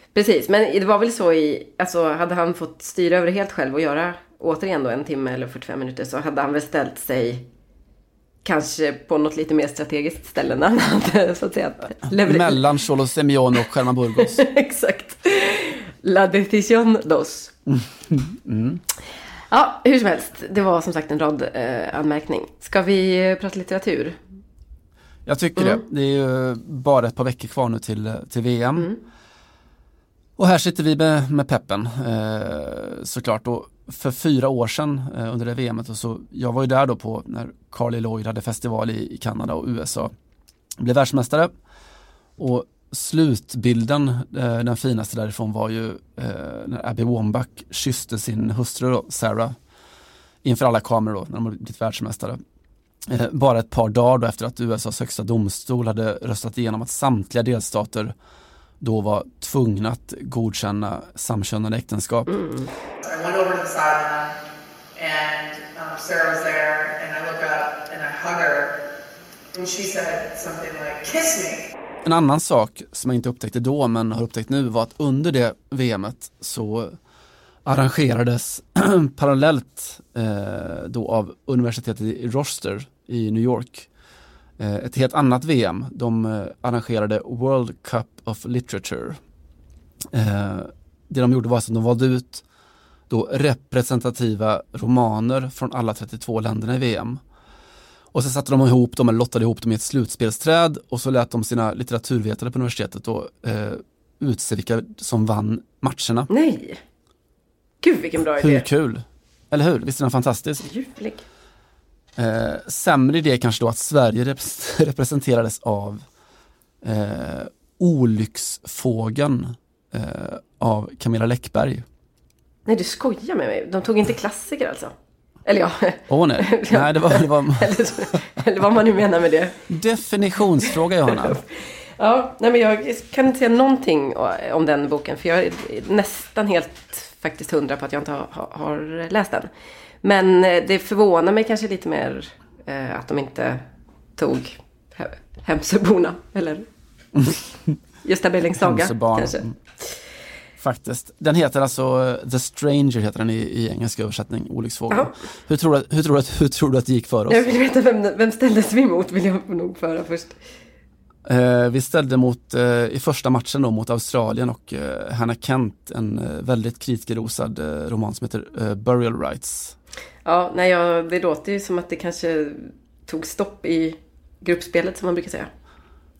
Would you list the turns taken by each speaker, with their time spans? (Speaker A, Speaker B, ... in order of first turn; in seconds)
Speaker A: 0.1-7.5, 8.4-12.6, 14.2-17.5, 19.5-24.2, 25.6-25.8, 62.3-62.7, 106.3-106.8, 107.8-108.6, 110.6-111.2, 122.7-124.9, 125.4-129.6, 131.1-131.5, 132.0-139.5, 140.0-143.6, 144.2-146.6, 148.0-149.4, 157.3-160.4, 170.2-175.5
Speaker B: 12.2-14.4, 17.7-18.8, 25.2-28.9, 30.4-40.1, 40.8-41.5, 42.4-49.5, 50.4-52.4, 53.0-58.1, 58.8-62.3, 72.0-77.0, 77.6-83.9, 84.6-89.2, 90.1-92.4, 93.1-97.2, 98.1-106.3, 108.3-110.6, 112.2-116.0, 116.8-121.8, 126.1-128.2, 129.7-131.4, 147.1-147.8, 148.6-149.5, 150.6-157.5, 161.2-169.7
Speaker C: 63.0-64.3, 65.0-68.7, 69.5-71.6